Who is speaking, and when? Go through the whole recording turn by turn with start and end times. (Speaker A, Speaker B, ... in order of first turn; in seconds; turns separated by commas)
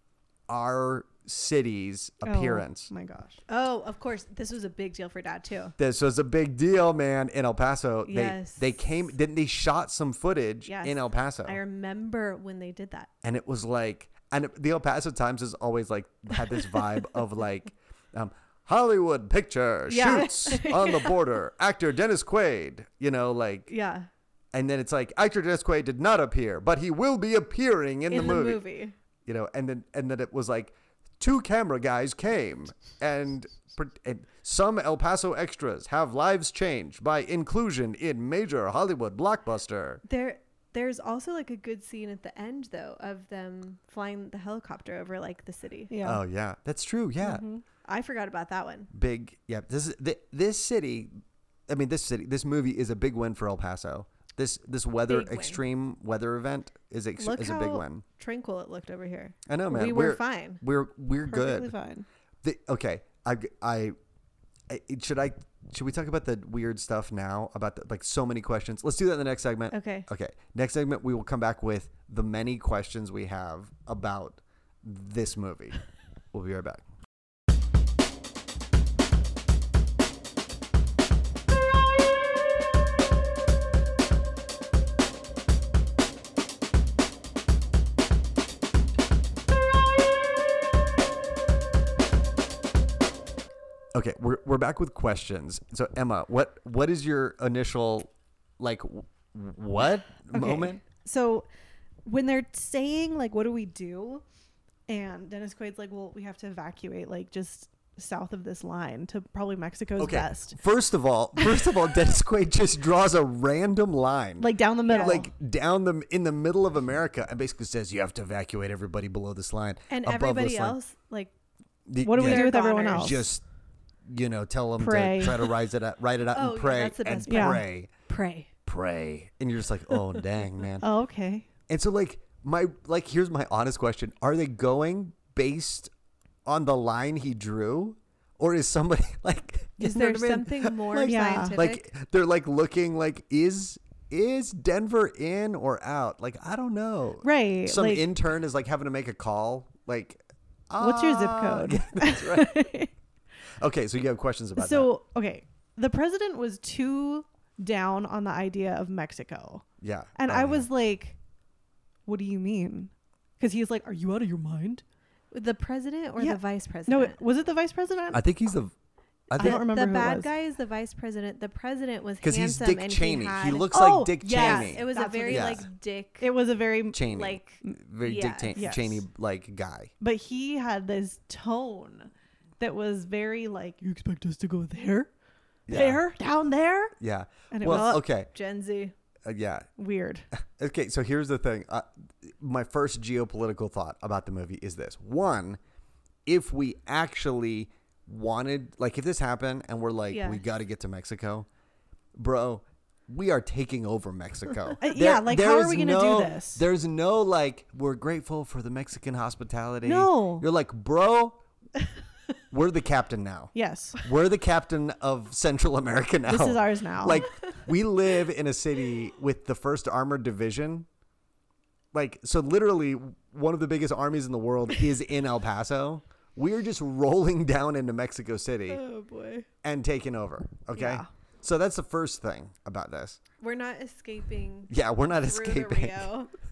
Speaker A: 0.5-2.9, Speaker B: 2.2-3.4, Speaker C: 3.5-5.7, Speaker A: 5.8-11.6, Speaker C: 8.1-8.8, Speaker C: 10.7-13.1, Speaker A: 13.2-23.7, Speaker C: 19.9-21.1, Speaker C: 23.7-24.1, Speaker A: 24.5-28.6, Speaker C: 28.1-28.9, Speaker A: 29.2-40.0, Speaker C: 40.0-45.9, Speaker B: 45.9-46.2, Speaker A: 46.0-47.4, Speaker B: 47.2-47.6, Speaker C: 47.8-48.9, Speaker A: 48.9-51.1, Speaker A: 51.7-58.0, Speaker C: 55.1-55.6, Speaker C: 57.2-60.6, Speaker A: 59.5-61.7, Speaker B: 61.2-62.0, Speaker A: 62.4-63.9, Speaker A: 64.7-75.8, Speaker C: 69.7-70.1, Speaker A: 76.3-76.8, Speaker A: 93.9-100.8, Speaker B: 100.3-101.5, Speaker B: 102.0-104.2, Speaker B: 104.9-110.6, Speaker A: 110.0-120.8, Speaker B: 114.4-115.3, Speaker C: 114.9-115.2, Speaker C: 119.9-121.3, Speaker A: 121.9-123.4, Speaker B: 122.0-123.2, Speaker C: 122.1-123.3, Speaker A: 124.0-127.9, Speaker B: 124.8-125.5, Speaker C: 126.3-128.5, Speaker B: 127.3-127.6, Speaker A: 128.7-130.8, Speaker B: 130.8-131.5, Speaker A: 131.7-135.9, Speaker A: 136.4-152.6, Speaker C: 139.8-141.9, Speaker B: 141.1-141.6, Speaker B: 147.2-148.0, Speaker B: 150.8-152.9, Speaker A: 153.6-154.9, Speaker B: 154.6-159.6, Speaker A: 159.8-160.7, Speaker B: 160.2-161.2, Speaker B: 162.1-164.8, Speaker C: 165.3-167.2, Speaker B: 166.2-168.2, Speaker A: 168.1-168.7, Speaker A: 169.3-169.6, Speaker B: 169.4-170.3, Speaker C: 169.4-173.8, Speaker A: 172.2-175.6, Speaker B: 173.7-175.7, Speaker C: 174.3-176.3, Speaker B: 176.2-177.1, Speaker A: 176.9-179.9, Speaker C: 177.1-178.7, Speaker B: 178.5-179.0, Speaker B: 180.0-185.1, Speaker A: 185.7-186.0, Speaker B: 185.7-186.9, Speaker A: 187.0-188.3, Speaker B: 187.5-188.0, Speaker C: 187.7-188.9, Speaker A: 189.2-189.7, Speaker B: 189.8-190.2, Speaker A: 190.3-195.6, Speaker A: 196.2-201.5, Speaker C: 200.1-200.4, Speaker A: 202.1-211.4, Speaker B: 204.8-206.6, Speaker B: 209.8-210.5, Speaker A: 212.5-220.9, Speaker B: 213.5-214.0, Speaker B: 216.3-217.3, Speaker A: 221.9-228.8, Speaker C: 228.7-229.4, Speaker A: 229.6-233.2, Speaker B: 230.7-231.1, Speaker C: 233.4-236.3, Speaker A: 234.7-236.1